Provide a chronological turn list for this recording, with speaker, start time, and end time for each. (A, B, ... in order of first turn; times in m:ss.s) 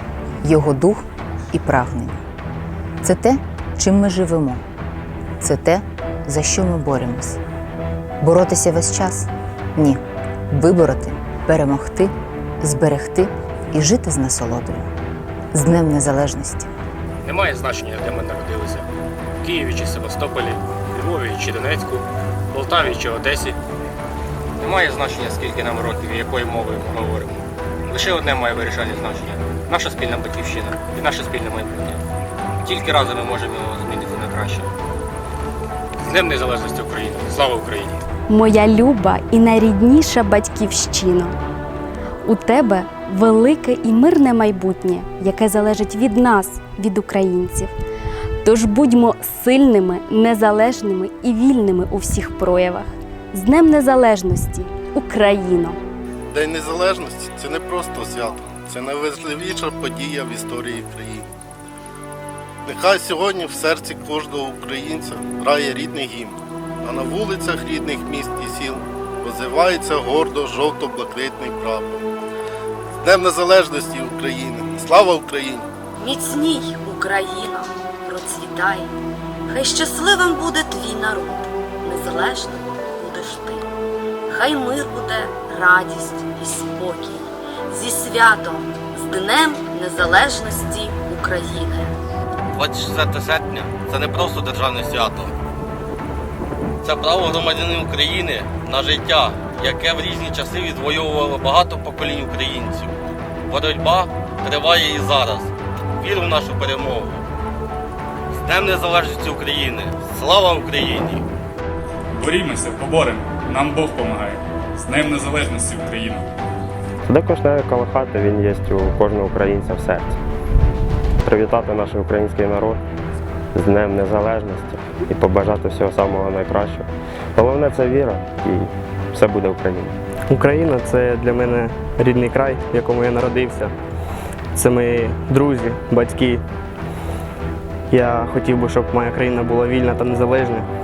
0:00.4-0:02.2 A
0:03.0-0:04.6 A
0:05.4-0:07.4 A
0:08.2-0:14.9 A
0:15.5-0:16.7 A
0:17.2-0:18.9 B
0:19.4-0:23.6 B
0:24.6-0:32.0 B
0:32.6-0:34.7 B
0:36.0-0:38.0 B
0:38.3-0:41.3 C
0:42.2-0:47.7 C
0:48.4-0:55.8 C
0:56.3-1:01.3 D
1:02.7-1:12.0 D
1:13.0-1:15.7 D
1:16.0-1:18.9 E
1:19.5-1:23.7 E
1:24.3-1:31.9 E
1:32.6-1:35.3 F
1:36.8-1:42.9 F
1:43.5-1:47.2 F
1:48.4-1:51.2 F
1:52.2-1:56.3 G
1:57.1-2:00.2 H
2:01.2-2:02.8 H
2:03.6-2:09.9 H
2:10.3-2:13.7 I
2:14.5-2:16.4 I
2:17.9-2:20.7 I